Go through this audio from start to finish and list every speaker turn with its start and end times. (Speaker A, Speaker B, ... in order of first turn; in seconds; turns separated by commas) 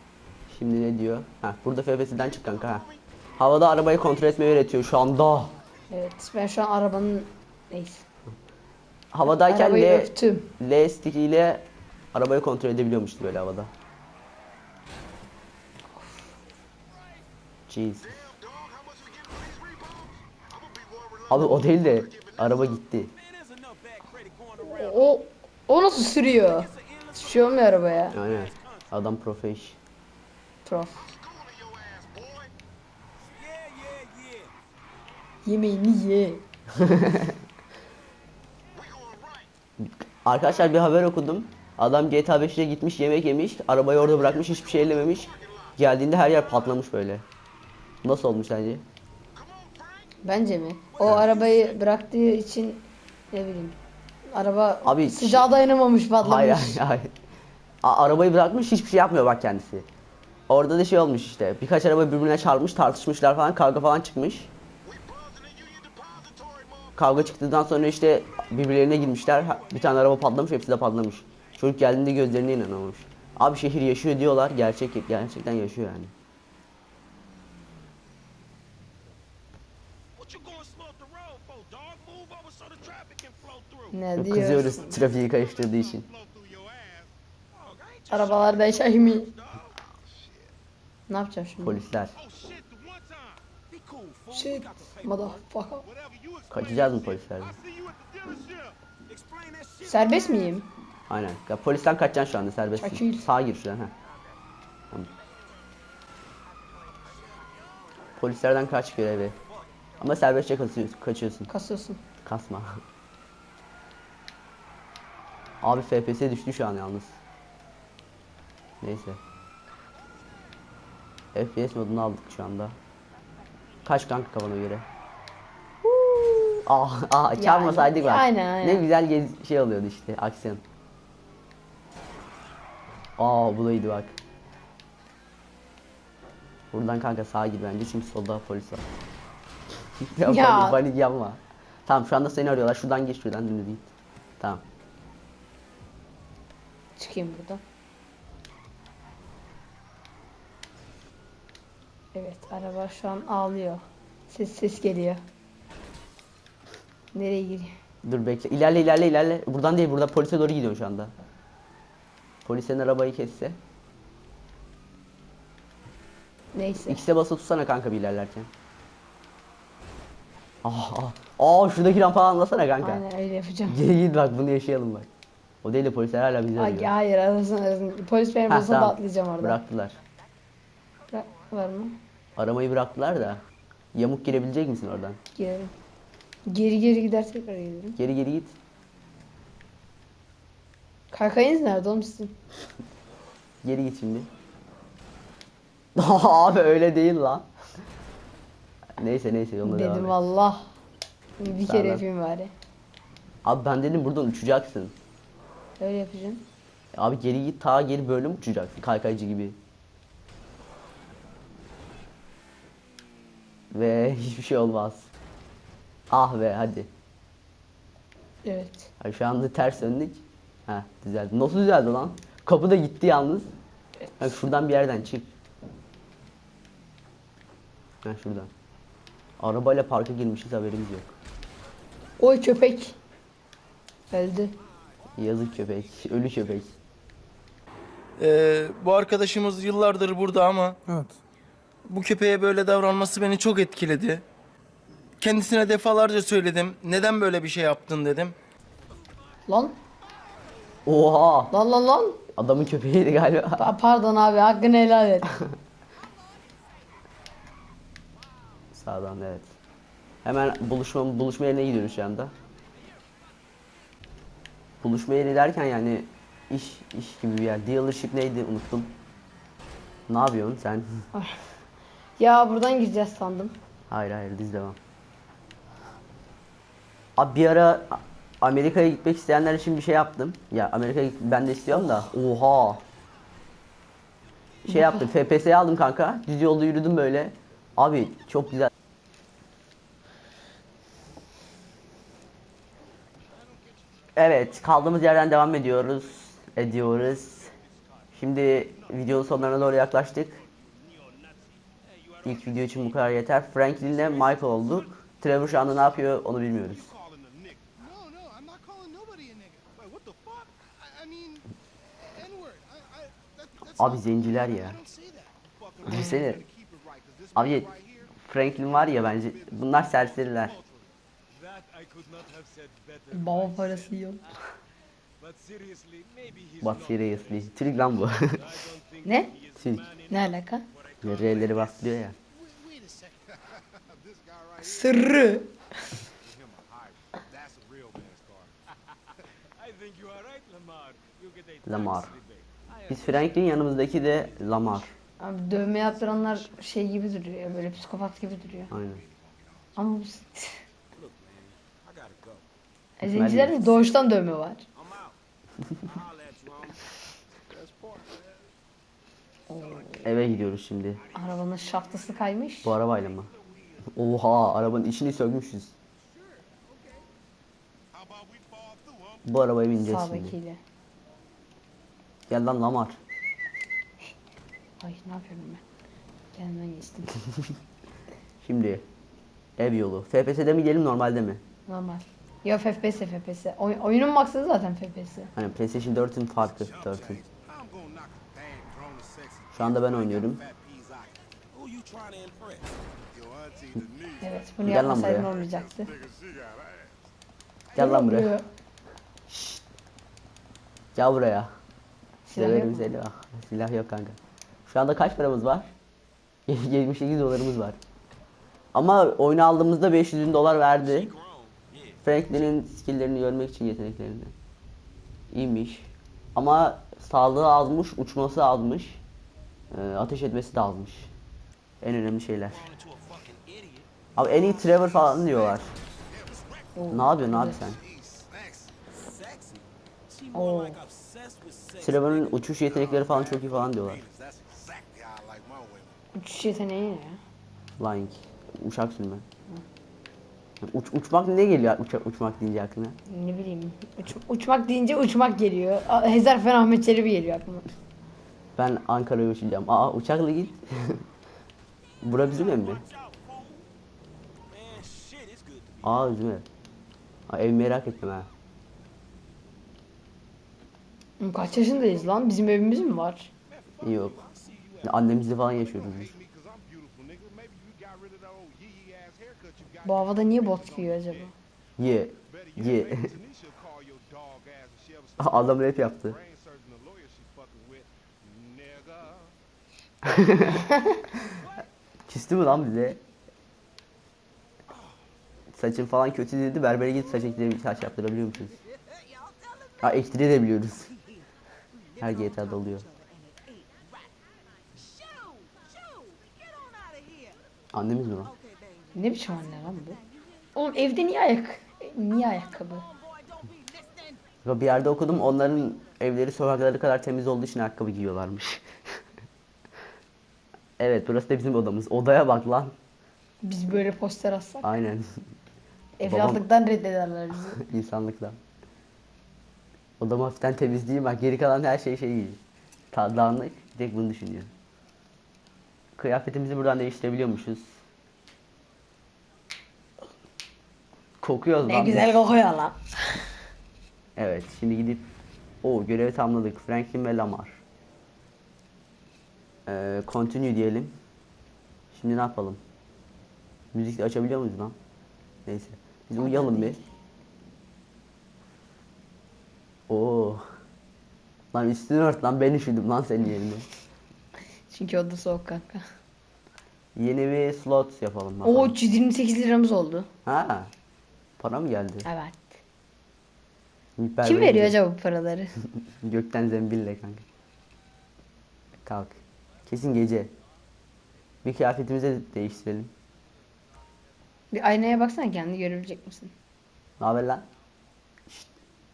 Speaker A: 0.5-2.9, Speaker A: 3.4-5.5, Speaker B: 5.9-8.1, Speaker A: 9.1-13.7, Speaker B: 9.3-10.5, Speaker A: 17.7-18.1, Speaker C: 18.4-20.1, Speaker C: 20.6-21.3, Speaker A: 21.3-23.1, Speaker C: 23.1-25.2, Speaker B: 24.6-28.2, Speaker C: 26.6-28.8, Speaker A: 28.1-29.8, Speaker B: 30.6-31.1, Speaker C: 31.3-32.5, Speaker C: 33.3-34.5, Speaker B: 35.4-36.4, Speaker A: 36.8-37.3, Speaker C: 38.8-39.4, Speaker A: 39.8-47.2, Speaker A: 48.0-48.8, Speaker C: 49.4-50.1, Speaker B: 50.2-53.8, Speaker A: 51.0-51.3, Speaker B: 54.3-56.8, Speaker A: 54.8-55.5, Speaker A: 56.2-57.1, Speaker A: 57.8-59.9, Speaker A: 60.5-64.5, Speaker C: 65.0-66.9, Speaker A: 67.0-76.1, Speaker C: 80.2-83.9, Speaker B: 83.9-85.0, Speaker A: 84.2-86.1, Speaker D: 85.9-87.1, Speaker C: 87.5-89.7, Speaker B: 88.1-89.3, Speaker D: 90.0-90.5, Speaker B: 91.1-91.8, Speaker A: 91.6-92.1, Speaker D: 92.1-93.4, Speaker C: 93.7-95.0, Speaker B: 94.3-95.8, Speaker D: 95.8-98.8, Speaker A: 96.5-97.5, Speaker C: 99.1-100.2, Speaker B: 99.8-100.7, Speaker A: 101.1-103.9, Speaker B: 102.8-103.3, Speaker C: 106.8-107.8, Speaker A: 108.2-109.3, Speaker A: 110.0-111.5, Speaker B: 111.5-112.0, Speaker A: 112.2-112.8, Speaker A: 115.6-117.1, Speaker A: 118.8-119.2, Speaker A: 121.3-122.8, Speaker A: 123.8-124.8, Speaker A: 125.9-130.6, Speaker B: 127.3-128.8, Speaker A: 133.2-134.2, Speaker A: 136.7-138.9, Speaker A: 140.0-144.6, Speaker B: 140.2-140.8, Speaker B: 147.0-147.6, Speaker B: 152.1-155.2, Speaker B: 157.1-157.7, Speaker A: 158.0-161.1, Speaker A: 162.4-163.6, Speaker B: 166.5-167.0, Speaker A: 166.9-168.5, Speaker A: 170.6-173.0, Speaker B: 172.8-173.8, Speaker A: 173.7-175.1, Speaker A: 175.6-176.9, Speaker B: 176.6-179.6, Speaker A: 178.5-180.0, Speaker B: 181.1-182.0, Speaker A: 182.4-183.4, Speaker A: 183.9-185.2, Speaker B: 185.3-185.7, Speaker B: 186.5-188.0, Speaker A: 188.0-188.5, Speaker B: 191.1-192.3, Speaker A: 193.6-194.3, Speaker A: 195.9-197.4, Speaker A: 199.0-200.2, Speaker B: 199.6-200.7, Speaker B: 201.4-202.5, Speaker A: 201.6-202.0, Speaker A: 203.4-204.9, Speaker B: 205.8-206.4, Speaker A: 206.9-209.6, Speaker A: 213.7-215.1, Speaker A: 216.1-216.9, Speaker B: 218.4-218.9, Speaker A: 219.0-223.5, Speaker A: 224.2-225.3, Speaker A: 228.0-228.5, Speaker A: 229.4-231.1, Speaker B: 232.2-233.0, Speaker B: 234.1-234.6, Speaker A: 235.2-236.7, Speaker E: 238.2-240.8, Speaker E: 241.8-244.2, Speaker E: 245.2-248.3, Speaker B: 249.5-249.8, Speaker A: 250.8-251.5, Speaker B: 251.5-252.2, Speaker A: 252.3-253.7, Speaker B: 253.6-255.3, Speaker C: 256.3-256.8, Speaker A: 258.7-259.5, Speaker A: 260.2-262.3, Speaker A: 264.8-268.9, Speaker A: 270.1-270.9, Speaker B: 271.1-271.4, Speaker B: 272.2-273.5, Speaker A: 273.9-274.8, Speaker A: 277.2-282.8, Speaker A: 284.6-288.7, Speaker B: 284.7-285.1, Speaker A: 294.1-297.5, Speaker A: 298.1-300.4, Speaker C: 300.6-302.1, Speaker A: 302.2-306.9, Speaker D: 306.7-311.5, Speaker D: 312.1-318.2, Speaker A: 313.8-314.8, Speaker A: 315.8-316.4, Speaker A: 317.3-317.7, Speaker A: 318.2-320.6, Speaker D: 318.8-320.9, Speaker C: 321.3-323.5, Speaker B: 323.1-324.2, Speaker C: 325.2-327.3, Speaker A: 326.6-328.5, Speaker C: 328.4-328.9, Speaker B: 329.0-329.3, Speaker A: 329.6-329.9, Speaker C: 329.7-330.0, Speaker B: 330.1-330.6, Speaker C: 331.0-331.5, Speaker A: 331.0-332.1, Speaker D: 332.3-335.1, Speaker B: 334.6-335.5, Speaker D: 336.1-338.5, Speaker C: 339.6-342.9, Speaker A: 341.6-342.1, Speaker A: 342.9-344.9, Speaker B: 345.2-348.7, Speaker A: 348.7-349.0, Speaker D: 348.9-349.6, Speaker B: 349.8-350.6, Speaker C: 350.9-352.4, Speaker B: 353.0-354.6, Speaker A: 353.0-353.7, Speaker C: 354.8-355.1, Speaker C: 355.8-356.9, Speaker C: 357.5-358.1, Speaker B: 359.5-360.1, Speaker A: 360.0-361.0, Speaker B: 361.1-362.8, Speaker A: 362.6-363.3, Speaker A: 363.9-365.7, Speaker C: 366.1-367.0, Speaker D: 367.9-369.2, Speaker A: 369.2-370.3, Speaker B: 369.8-370.6, Speaker A: 372.3-372.9, Speaker B: 374.8-375.6, Speaker B: 376.3-377.1, Speaker A: 378.4-378.8, Speaker A: 379.6-381.4, Speaker B: 381.7-385.3, Speaker A: 385.3-387.2, Speaker D: 386.6-391.4, Speaker A: 389.5-390.4, Speaker C: 391.5-392.8, Speaker D: 393.1-397.1, Speaker B: 394.2-395.9, Speaker A: 394.6-395.3, Speaker A: 397.7-398.4, Speaker B: 397.8-398.4, Speaker A: 399.3-399.6, Speaker A: 400.9-401.5, Speaker B: 402.2-402.9, Speaker A: 402.3-405.7, Speaker A: 406.5-407.8, Speaker A: 408.7-411.1, Speaker C: 410.8-412.0, Speaker A: 412.0-414.3, Speaker A: 415.3-419.0, Speaker A: 419.7-421.1, Speaker A: 421.8-422.6, Speaker C: 422.5-423.9, Speaker A: 424.1-425.7, Speaker D: 426.1-426.4, Speaker B: 426.8-427.6, Speaker A: 426.9-427.8, Speaker D: 427.6-428.7, Speaker C: 428.9-432.2, Speaker B: 430.3-430.8, Speaker A: 431.8-434.0, Speaker D: 432.7-436.0, Speaker B: 436.1-437.2, Speaker A: 437.8-439.2, Speaker A: 440.6-442.9, Speaker B: 443.1-447.6, Speaker A: 448.6-451.0, Speaker A: 452.0-452.8, Speaker C: 452.1-453.6, Speaker C: 454.5-455.9, Speaker A: 455.8-456.4, Speaker A: 457.3-458.3, Speaker B: 461.2-463.3, Speaker C: 463.5-464.9, Speaker A: 463.8-464.2, Speaker A: 464.8-466.1, Speaker D: 465.8-471.3, Speaker B: 469.8-471.3, Speaker A: 471.8-473.1, Speaker D: 472.2-479.3, Speaker A: 475.2-476.2, Speaker A: 480.0-480.7, Speaker B: 480.7-481.0, Speaker A: 482.1-483.0, Speaker A: 485.5-488.6, Speaker C: 488.6-489.9, Speaker A: 489.8-490.9, Speaker C: 491.8-497.4, Speaker A: 492.0-492.9, Speaker A: 497.7-498.3, Speaker C: 498.3-500.0, Speaker B: 498.9-500.0, Speaker B: 500.5-502.8, Speaker C: 502.9-504.2, Speaker A: 504.4-508.7, Speaker A: 510.8-512.7, Speaker B: 513.4-514.7, Speaker A: 514.6-515.2, Speaker B: 516.0-517.6, Speaker A: 516.0-516.4, Speaker A: 517.5-518.4, Speaker A: 520.0-522.4, Speaker A: 522.9-524.5, Speaker A: 526.0-527.7, Speaker A: 531.2-532.2, Speaker B: 531.6-533.2, Speaker A: 534.2-535.1, Speaker A: 535.6-537.6, Speaker A: 539.6-540.9, Speaker A: 541.9-542.6, Speaker A: 543.7-544.8, Speaker A: 545.5-546.8, Speaker B: 546.2-546.8, Speaker A: 549.9-550.4, Speaker A: 551.5-553.6, Speaker B: 554.7-555.8, Speaker A: 557.0-558.7, Speaker B: 558.4-560.1, Speaker A: 560.2-560.7, Speaker A: 561.4-562.1, Speaker B: 562.0-562.6, Speaker A: 564.0-564.8, Speaker B: 564.2-565.5, Speaker A: 566.0-567.2, Speaker A: 568.8-570.3, Speaker A: 571.4-572.9, Speaker B: 574.5-576.3, Speaker A: 577.0-577.4